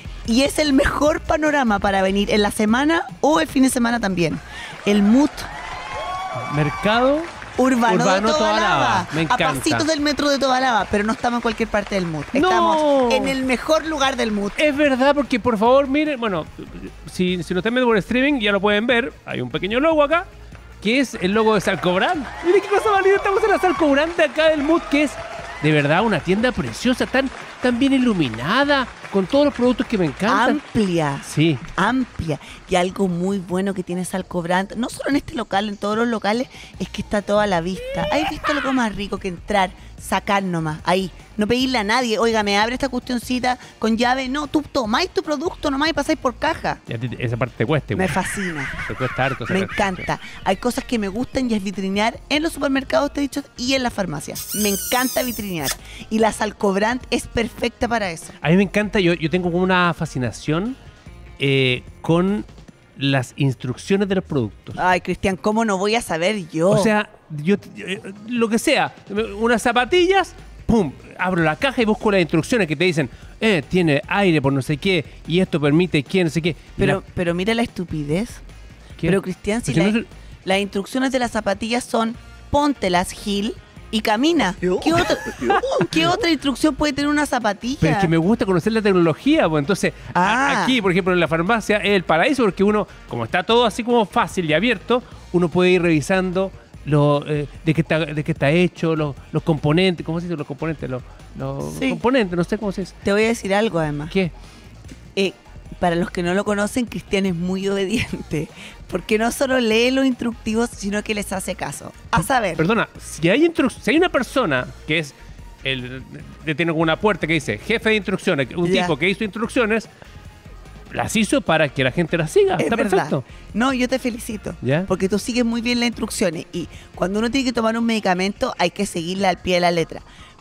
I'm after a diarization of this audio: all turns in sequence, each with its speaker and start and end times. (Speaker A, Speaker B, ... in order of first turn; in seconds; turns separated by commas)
Speaker A: 0.3-5.5, Speaker B: 6.4-7.3, Speaker A: 7.6-14.6, Speaker B: 7.8-9.9, Speaker B: 12.3-13.4, Speaker B: 14.6-20.3, Speaker B: 20.8-30.6, Speaker A: 30.3-46.8, Speaker B: 31.2-31.6, Speaker B: 46.9-48.2, Speaker A: 47.9-48.8, Speaker B: 48.9-50.0, Speaker A: 49.5-58.4, Speaker B: 58.4-60.8, Speaker B: 61.4-62.5, Speaker B: 63.0-64.8, Speaker A: 64.8-66.9, Speaker B: 66.7-77.0, Speaker A: 76.8-78.4, Speaker B: 79.0-80.1, Speaker A: 79.0-88.1, Speaker B: 84.9-86.0, Speaker B: 87.8-102.9, Speaker A: 90.1-90.8, Speaker A: 101.6-102.0, Speaker A: 103.0-104.1, Speaker A: 105.1-112.7, Speaker B: 112.6-119.9, Speaker A: 118.6-118.9, Speaker B: 120.9-123.2, Speaker A: 122.6-130.1, Speaker B: 124.6-124.9